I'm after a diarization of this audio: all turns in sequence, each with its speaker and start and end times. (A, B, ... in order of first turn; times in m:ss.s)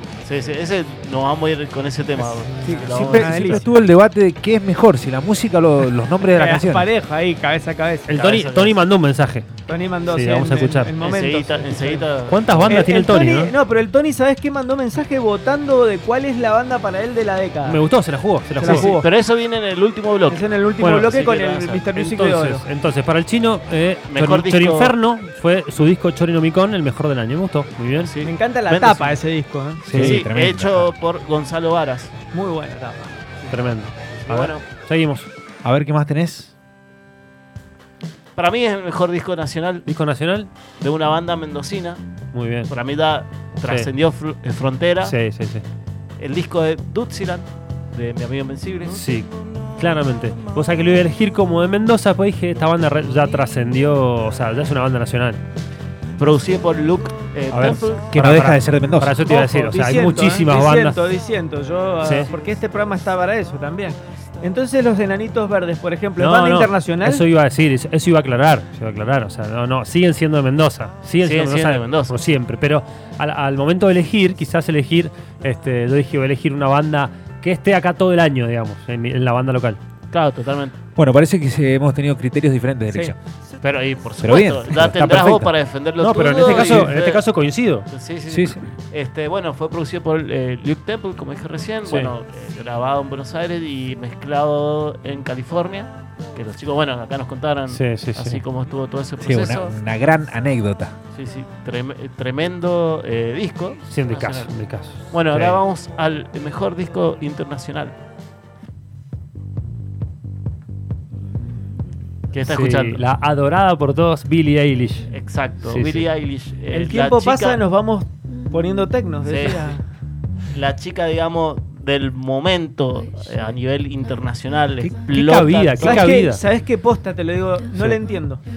0:00.2-0:03.7 A
0:02.6-0:06.9 B
0:02.6-0:03.7 C
0:06.3-0:08.1 C
0:08.1-0:09.5 D
0:08.1-0:08.8 A
0:09.7-0:12.1 C
0:10.1-0:11.0 D
0:11.0-0:12.7 A
0:12.3-0:13.5 D
0:12.7-0:17.8 C
0:17.6-0:19.0 D
0:18.6-0:19.1 C
0:18.6-0:20.5 A
0:20.3-0:22.6 C
0:20.8-0:21.2 D
0:21.1-0:21.8 A
0:21.8-0:28.2 D
0:24.1-0:25.0 A
0:28.0-0:29.2 A
0:28.2-0:29.8 C
0:29.8-0:30.9 B
0:29.9-0:30.2 D
0:29.9-0:32.1 A
0:32.3-0:33.1 C
0:33.5-0:35.3 D
0:34.2-0:34.7 A
0:35.6-0:36.5 B
0:38.4-0:39.9 A
0:39.8-0:40.5 D
0:40.8-0:42.0 A
0:42.3-0:42.7 D
0:42.7-0:45.2 A
0:45.0-0:45.6 D
0:46.2-0:49.0 A
0:48.9-0:55.4 D
0:56.2-0:58.1 A
0:57.5-1:01.0 D
0:58.1-0:59.2 B
0:59.2-1:07.2 C
1:02.0-1:02.3 D
1:06.2-1:19.8 D
1:11.2-1:12.2 A
1:20.1-1:20.8 A
1:21.0-1:23.2 B
1:23.6-1:27.2 A
1:24.2-1:25.5 B
1:26.0-1:27.9 D
1:26.5-1:26.9 B
1:27.9-1:39.8 A
1:28.3-1:28.6 B
1:31.9-1:32.1 D
1:37.7-1:38.4 D
1:39.2-1:41.0 B
1:41.1-1:44.5 A
1:43.9-1:45.6 D
1:45.1-1:48.0 A
1:52.3-1:53.0 A
1:52.4-1:55.1 D
1:55.1-1:57.6 A
1:55.6-1:56.1 D
1:56.7-1:59.8 C
1:59.2-1:59.7 A
2:00.5-2:06.1 A
2:04.8-2:06.4 D
2:05.8-2:08.4 C